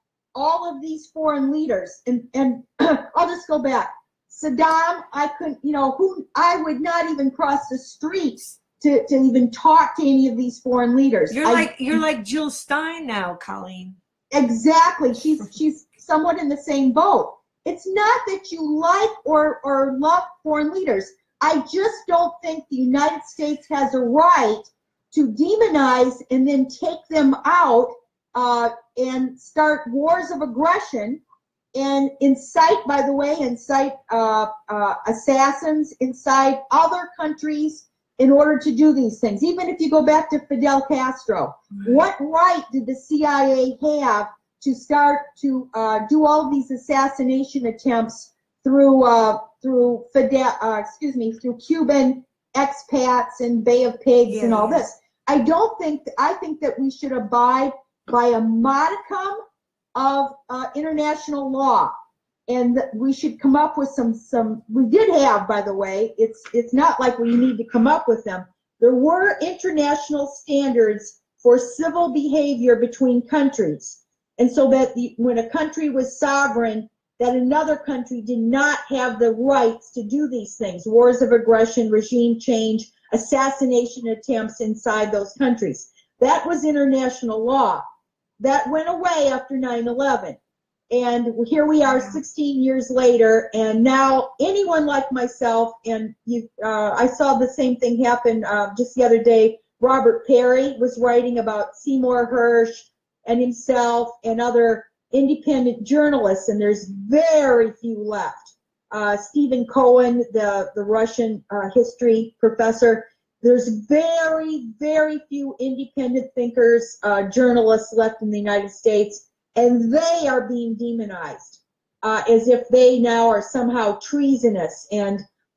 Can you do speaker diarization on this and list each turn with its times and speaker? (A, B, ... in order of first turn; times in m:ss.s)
0:00.4-0:12.0 A
0:11.3-0:14.0 B
0:14.3-0:31.2 A
0:31.8-0:59.4 A
0:54.3-0:54.9 B
1:00.0-1:01.9 A
1:02.5-1:27.8 A
1:28.4-1:30.4 A
1:30.9-2:05.2 A
1:31.9-1:32.2 B